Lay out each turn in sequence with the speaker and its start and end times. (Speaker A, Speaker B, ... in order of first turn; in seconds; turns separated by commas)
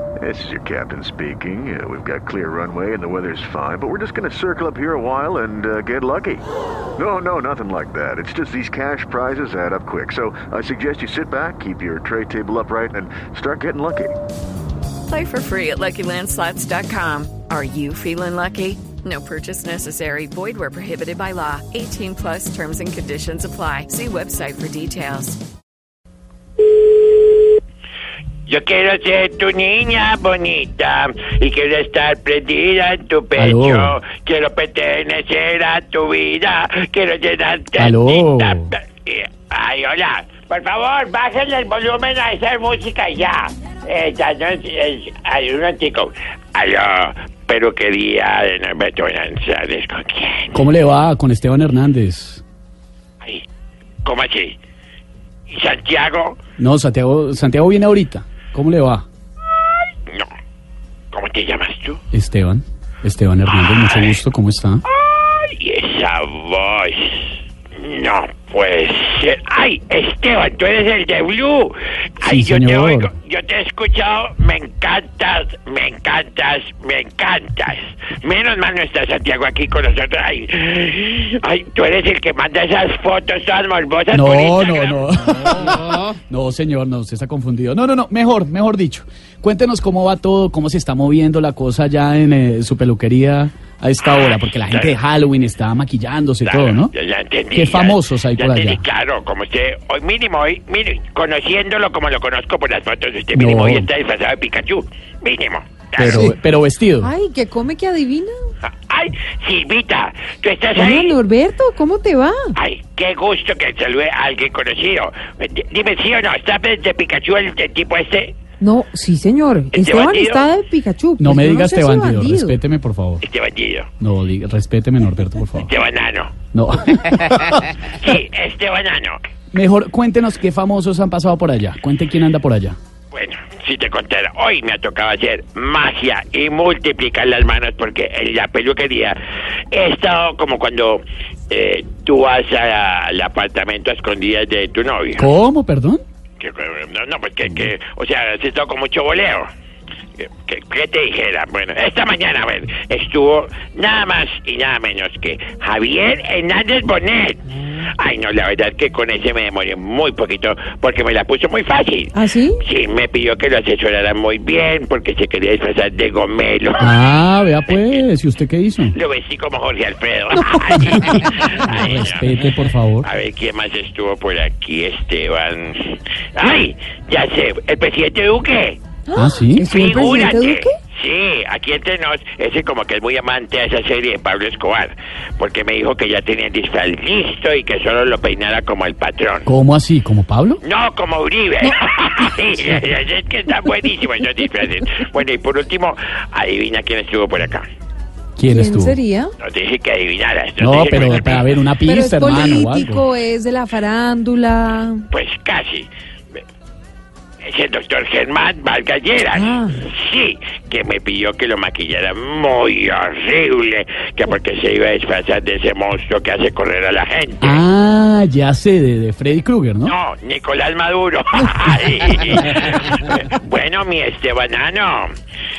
Speaker A: 0.2-6.4, Speaker A: 7.0-14.2, Speaker B: 15.1-25.4, Speaker C: 28.5-50.6, Speaker D: 33.4-34.0, Speaker D: 37.8-38.7, Speaker D: 50.5-52.4, Speaker C: 54.0-54.5, Speaker C: 55.5-56.4, Speaker D: 56.6-59.0, Speaker C: 60.0-60.3, Speaker C: 61.1-62.0, Speaker D: 62.1-64.8, Speaker C: 63.5-64.2, Speaker C: 64.8-85.5, Speaker D: 72.2-73.1, Speaker D: 84.1-96.9, Speaker C: 94.0-95.0, Speaker C: 96.4-106.3, Speaker D: 97.5-98.8, Speaker D: 103.3-103.9, Speaker D: 106.0-107.1, Speaker E: 107.0-108.3, Speaker C: 108.6-111.2, Speaker E: 110.7-112.5, Speaker C: 112.5-118.4, Speaker E: 118.6-122.5, Speaker C: 119.7-120.5, Speaker D: 121.2-123.2, Speaker C: 123.2-123.9, Speaker D: 124.0-125.7, Speaker C: 125.6-126.3, Speaker D: 126.5-127.5, Speaker C: 127.9-129.2, Speaker D: 129.5-132.8, Speaker C: 133.1-139.2, Speaker C: 139.7-145.3, Speaker D: 145.2-146.0, Speaker C: 146.4-149.5, Speaker C: 150.2-166.9, Speaker E: 162.1-162.6, Speaker D: 166.8-168.9, Speaker C: 168.9-172.4, Speaker D: 171.0-173.1, Speaker C: 173.0-178.8, Speaker E: 179.1-180.7, Speaker D: 179.1-179.7, Speaker C: 179.6-189.5, Speaker D: 189.4-190.6, Speaker C: 190.6-197.7, Speaker D: 198.4-199.0, Speaker E: 198.4-199.3, Speaker C: 199.4-201.5, Speaker D: 200.6-203.1, Speaker E: 201.8-205.0, Speaker C: 205.1-205.9, Speaker C: 207.4-217.6, Speaker E: 209.3-209.8, Speaker D: 217.4-219.9, Speaker C: 219.8-225.1